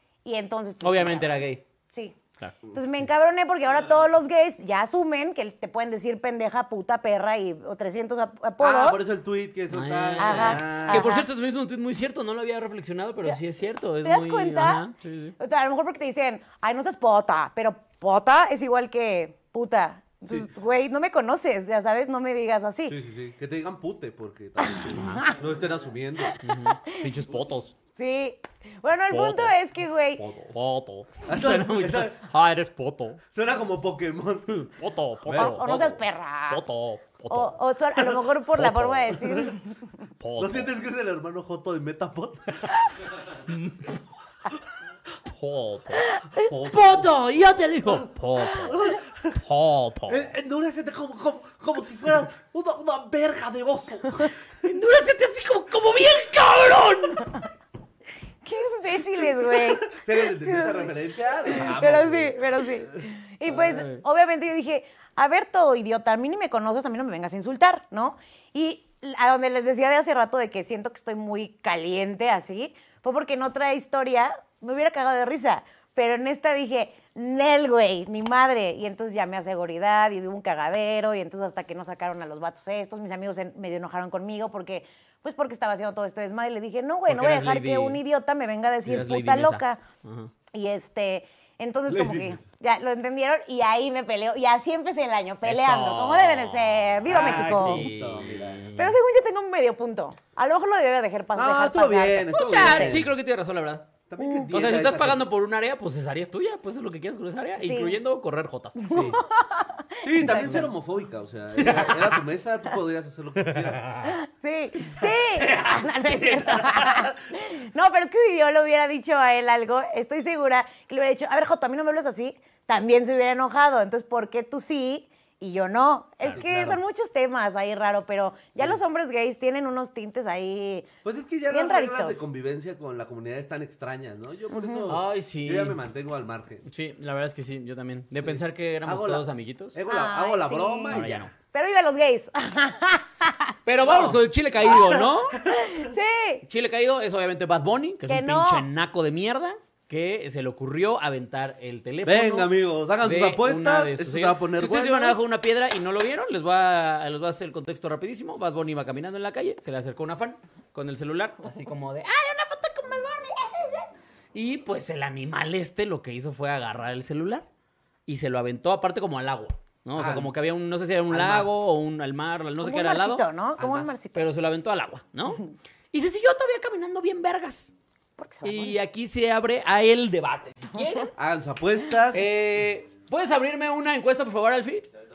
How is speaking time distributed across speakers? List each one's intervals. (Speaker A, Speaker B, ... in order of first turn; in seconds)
Speaker A: 0.2-1.4, 2.7-9.0, 10.2-11.3, 14.0-14.8, 15.4-23.0, 24.6-25.3, 26.2-27.1, 28.0-30.2, 35.4-36.6, 37.3-39.8, 46.1-46.5, 58.5-60.9, 61.5-89.8, 90.5-97.9, 98.8-103.0, 104.2-104.5, 107.6-108.0, 108.8-110.7, 114.0-130.9, 131.5-132.2, 134.5-134.9, 139.9-141.0, 141.5-143.6, 145.5-146.4, 148.1-148.7, 172.6-174.3, 178.2-178.8
Speaker B: 0.8-1.6, 9.7-15.3, 24.9-25.3, 26.4-27.8, 29.1-29.6, 30.2-33.2, 34.5-39.5, 40.2-40.7, 43.5-44.0, 45.3-50.3, 54.6-57.4, 63.5-64.0, 87.1-88.0, 88.9-90.3, 95.5-99.0, 102.3-103.9, 104.5-108.8, 110.2-110.6, 111.6-112.1, 115.4-115.7, 116.4-116.7, 134.9-135.8, 136.7-139.8, 140.9-141.3, 143.7-145.4, 146.5-152.5, 153.0-163.8, 164.3-167.5, 168.1-177.7, 178.4-181.1, 182.1-184.9
Speaker C: 8.6-11.1, 22.9-26.4, 31.3-32.2, 33.3-34.6, 35.2-35.9, 40.4-42.8, 46.4-47.1, 48.7-49.4, 50.1-54.3, 59.9-62.8, 91.9-92.4, 97.1-98.7, 101.3-103.1, 104.1-105.2, 108.9-109.2, 110.0-113.9, 126.3-126.8, 131.0-136.7, 138.2-141.3, 143.8-145.7, 152.1-155.2, 169.9-170.3, 171.1-171.5, 181.2-182.3